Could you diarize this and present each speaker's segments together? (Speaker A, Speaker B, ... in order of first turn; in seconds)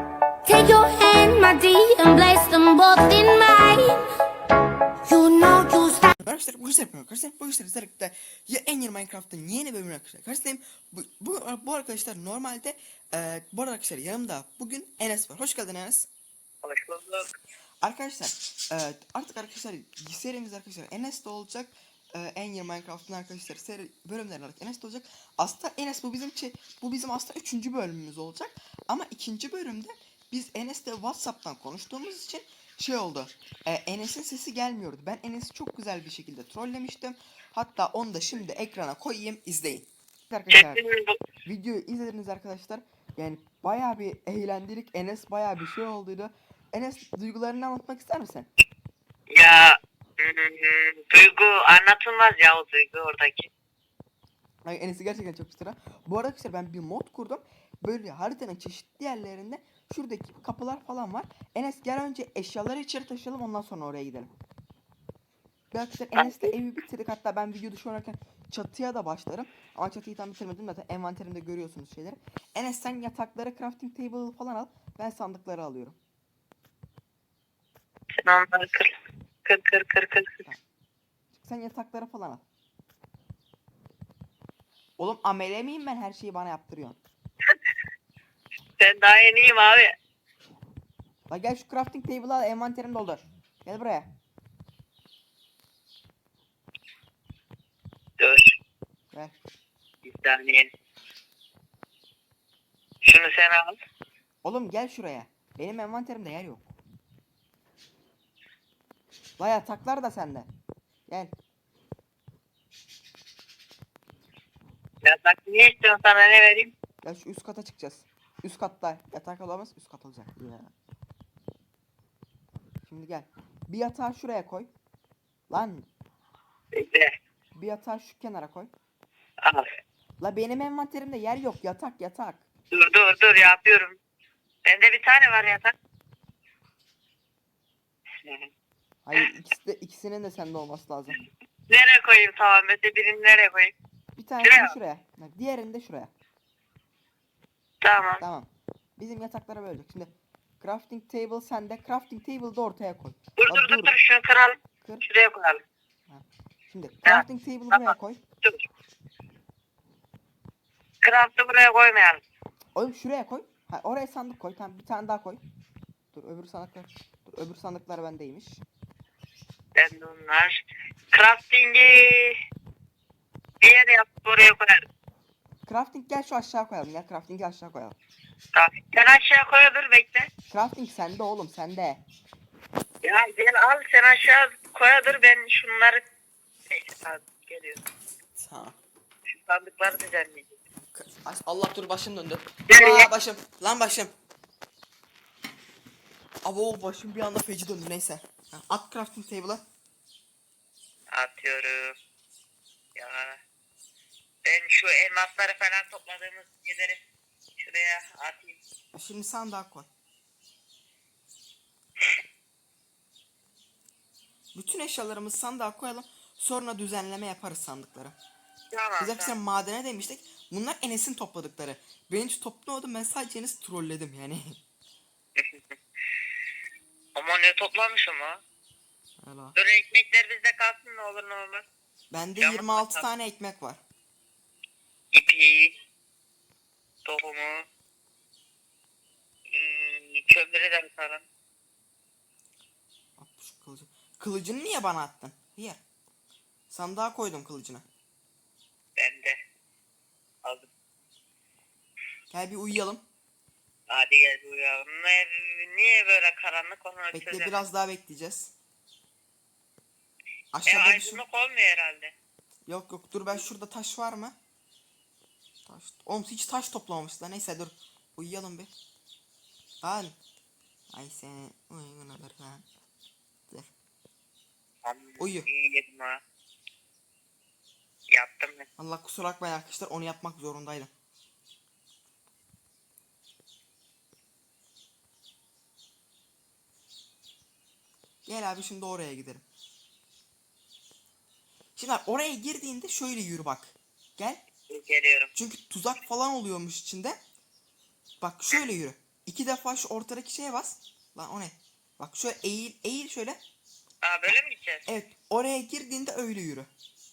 Speaker A: 0.4-4.1, 5.1-6.1
Speaker B: 6.2-16.1, 17.8-40.8, 41.5-48.5, 54.6-64.3, 65.7-76.0, 81.3-82.4, 85.0-87.0, 91.3-94.1, 104.4-106.7, 109.4-110.5, 111.1-111.3, 117.0-120.7, 122.8-124.7, 125.5-125.9, 127.5-128.7, 130.2-132.5, 139.1-141.2, 144.2-146.1, 148.2-153.9, 156.1-158.2, 162.8-165.4, 166.1-168.6, 175.7-178.0, 180.5-182.0, 188.4-188.8, 190.9-194.1, 196.4-199.6, 208.9-209.9, 214.6-218.2, 219.0-224.6, 229.2-229.6, 232.1-233.8, 243.2-245.8, 246.7-247.8, 252.3-253.0, 257.1-258.5, 260.5-261.2, 262.7-264.4, 265.7-268.7, 269.8-270.2, 270.9-272.7, 275.2-275.5, 278.8-280.9, 288.3-289.4, 291.8-294.4, 295.3-297.2, 298.2-303.4, 304.9-306.7
Speaker C: 16.6-17.3, 40.5-41.2, 49.3-53.5, 66.2-66.5, 78.2-80.5, 88.8-89.9, 98.2-98.5, 100.0-100.7, 103.0-103.8, 115.0-116.7, 126.7-127.1, 129.4-129.7, 132.7-134.0, 134.6-135.7, 138.2-138.5, 141.1-143.7, 144.4-144.8, 147.8-148.2, 153.4-155.6, 157.1-158.6, 161.0-162.2, 169.8-172.3, 173.6-174.8, 178.5-180.3, 183.0-186.0, 186.7-187.8, 189.3-190.5, 192.7-193.1, 201.1-201.9, 202.9-203.4, 204.4-207.0, 207.6-208.6, 218.7-219.4, 225.4-225.6, 227.2-228.4, 229.6-231.7, 232.4-233.1, 235.1-235.8, 237.1-237.7, 239.5-241.3, 249.0-249.4, 250.4-250.7, 253.9-257.6, 260.7-262.1, 274.8-276.2, 278.1-278.7, 294.7-295.3, 304.0-304.9